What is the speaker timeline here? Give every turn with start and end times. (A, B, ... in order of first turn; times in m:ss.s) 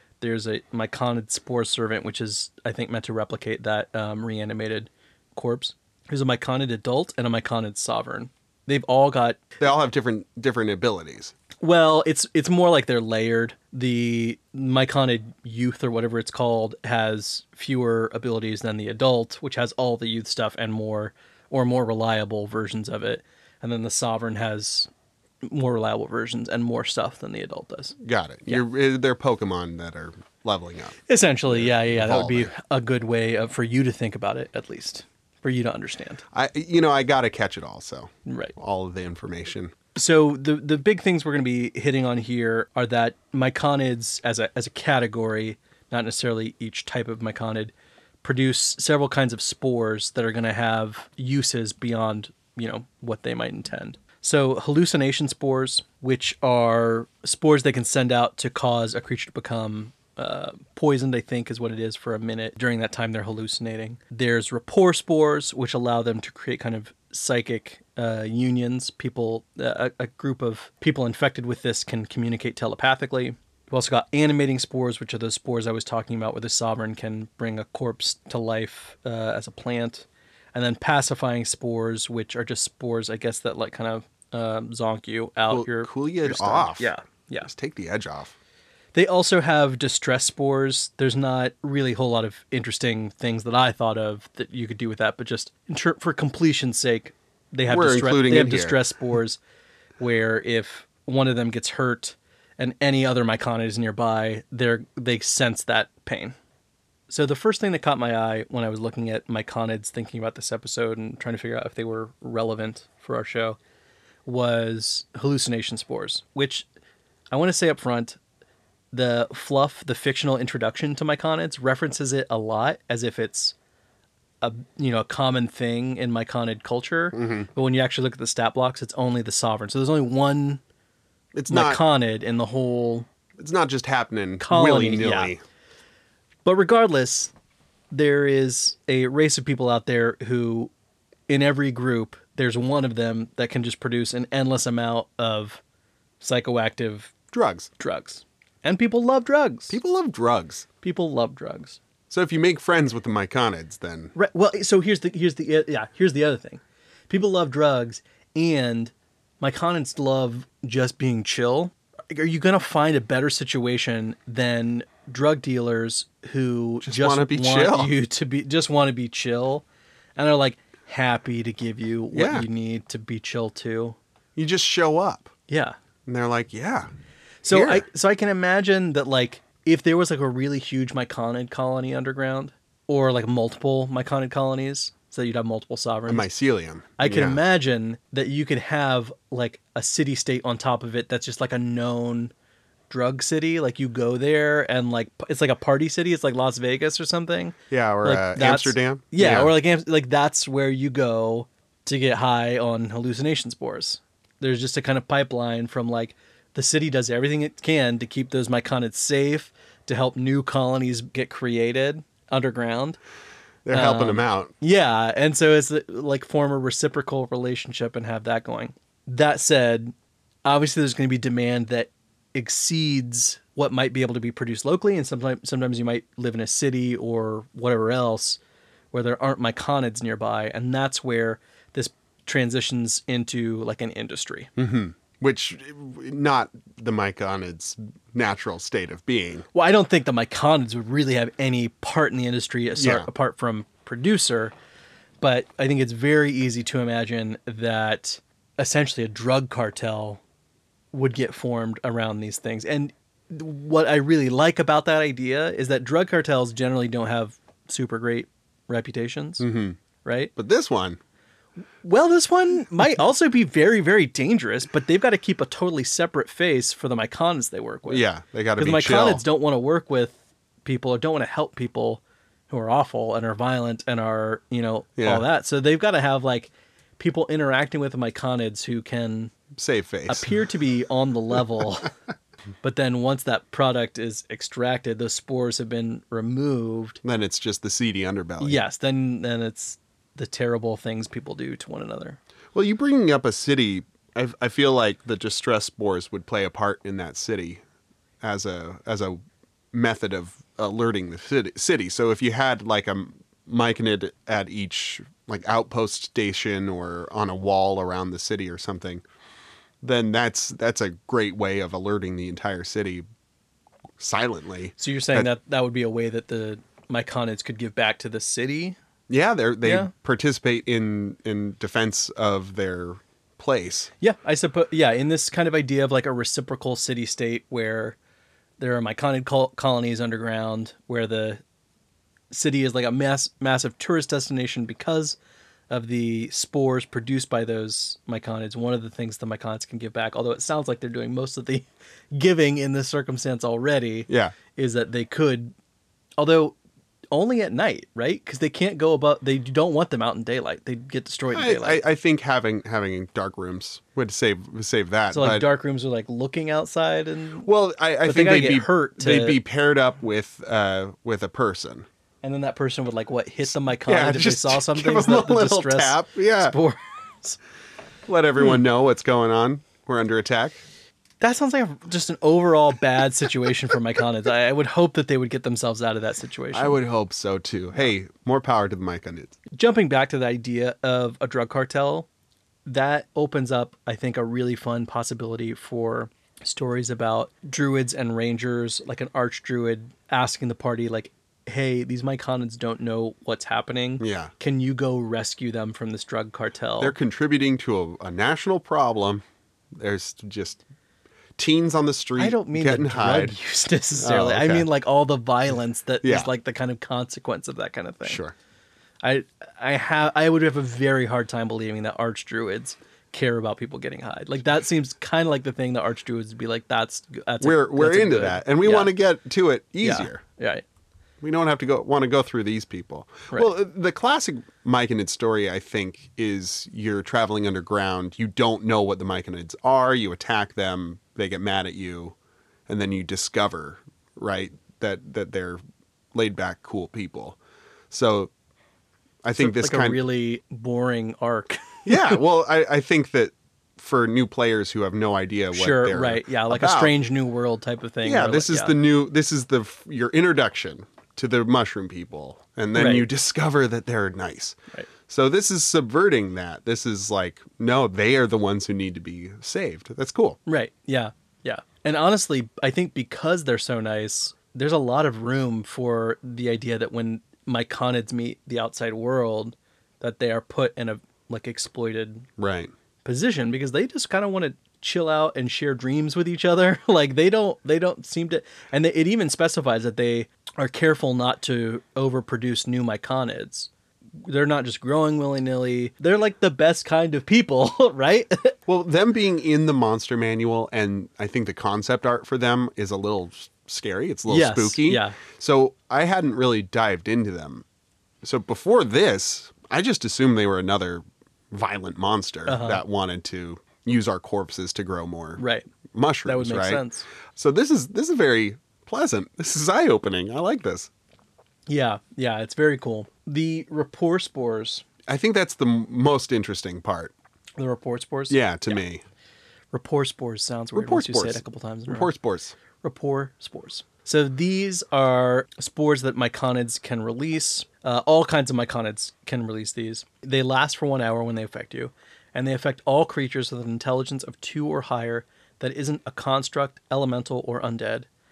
0:00.2-0:09.4 A
0:09.6-0:11.3 B
0:11.6-0:24.9 A
0:25.4-0:28.0 A
0:28.0-0:32.5 B
0:31.1-0:36.2 A
0:36.3-0:39.7 B
0:38.3-0:38.5 A
0:40.0-1:27.5 A
1:25.5-1:28.4 B
1:28.9-1:39.4 A
1:37.7-1:38.8 B
1:40.0-1:46.4 A
1:47.1-1:53.6 A
1:54.2-1:56.7 A
1:57.3-1:58.2 A
1:58.9-2:03.6 A
2:04.4-2:10.6 A
2:07.1-2:07.5 B
2:11.4-2:11.8 B
2:11.5-2:13.1 A
2:13.4-2:15.4 B
2:14.4-2:15.3 A
2:16.4-2:17.3 A
2:17.9-2:20.7 A
2:21.3-2:25.6 A
2:26.2-2:27.1 A
2:27.3-2:27.7 B
2:27.8-2:29.8 A
2:29.7-2:30.7 B
2:30.8-2:31.8 A
2:32.1-2:34.1 B
2:34.2-2:49.6 A
2:46.8-2:47.9 B
2:50.2-2:54.0 A
2:52.1-2:52.5 B
2:54.4-2:55.3 B
2:55.5-2:55.8 A
2:56.1-2:56.9 B
2:57.4-3:06.3 A
2:57.5-2:57.8 B
3:06.1-3:07.4 B
3:07.0-3:12.3 A
3:12.9-3:33.0 A
3:17.7-3:19.5 B
3:33.7-3:34.5 B
3:33.7-3:39.9 A
3:40.4-3:48.4 A
3:48.9-3:54.5 A
3:54.6-3:59.4 B
3:59.5-4:04.5 A
4:02.8-4:03.1 B
4:05.2-4:10.2 A
4:10.9-4:19.5 A
4:19.4-4:19.8 B
4:20.0-4:20.3 A
4:20.4-4:21.0 B
4:21.8-4:28.1 A
4:27.9-4:29.2 B
4:28.6-4:39.3 A
4:35.0-4:35.3 B
4:39.6-4:40.3 B
4:40.1-4:41.9 A
4:42.6-4:47.0 A
4:47.0-4:48.6 B
4:48.4-4:52.2 A
4:52.5-4:57.6 B
4:58.2-4:59.2 B
4:59.7-5:09.0 B
5:09.8-5:13.0 B
5:14.0-5:15.3 B
5:14.8-5:18.8 A
5:19.1-5:23.9 B
5:19.6-5:19.9 A
5:24.0-5:28.0 A
5:28.6-5:31.4 A
5:32.3-5:35.2 A
5:35.7-5:45.5 A
5:44.1-5:44.4 B
5:46.2-5:46.6 A
5:47.1-5:51.8 A
5:51.3-5:55.5 B
5:55.1-5:57.5 A
5:57.4-6:01.9 B
5:58.0-5:59.4 A
6:02.2-6:07.4 A
6:03.9-6:06.6 B
6:08.1-6:10.6 B
6:11.2-6:16.8 A
6:16.5-6:19.4 B
6:19.5-6:22.1 A
6:22.7-6:37.0 A
6:34.0-6:34.3 B
6:36.8-6:39.2 B
6:39.8-6:40.6 B
6:41.4-6:43.4 B
6:42.2-6:48.2 A
6:44.0-6:44.7 B
6:46.0-6:46.3 B
6:48.0-6:48.3 B
6:49.0-6:58.9 A
6:57.4-7:00.2 B
6:59.8-7:00.6 A
7:01.2-7:12.2 B
7:12.7-7:15.6 B
7:16.1-7:17.4 B
7:17.9-7:18.3 B
7:19.2-7:20.0 B
7:19.4-7:22.2 A
7:21.9-7:26.9 B
7:25.5-7:28.8 A
7:28.0-7:40.4 B
7:32.7-7:33.1 A
7:40.5-7:52.3 A
7:52.4-7:52.7 B
7:53.0-8:03.7 A
8:04.2-8:08.6 A
8:08.7-8:17.6 B
8:14.3-8:15.2 A
8:18.2-8:25.4 B
8:22.5-8:22.8 A
8:25.4-8:25.7 A
8:25.9-8:26.8 B
8:26.2-8:27.1 A
8:27.3-8:30.9 B
8:31.7-8:34.9 A
8:35.1-8:37.1 B
8:37.6-8:38.4 A
8:38.3-8:39.0 B
8:39.7-8:42.1 A
8:40.8-8:42.6 B
8:42.8-8:58.1 A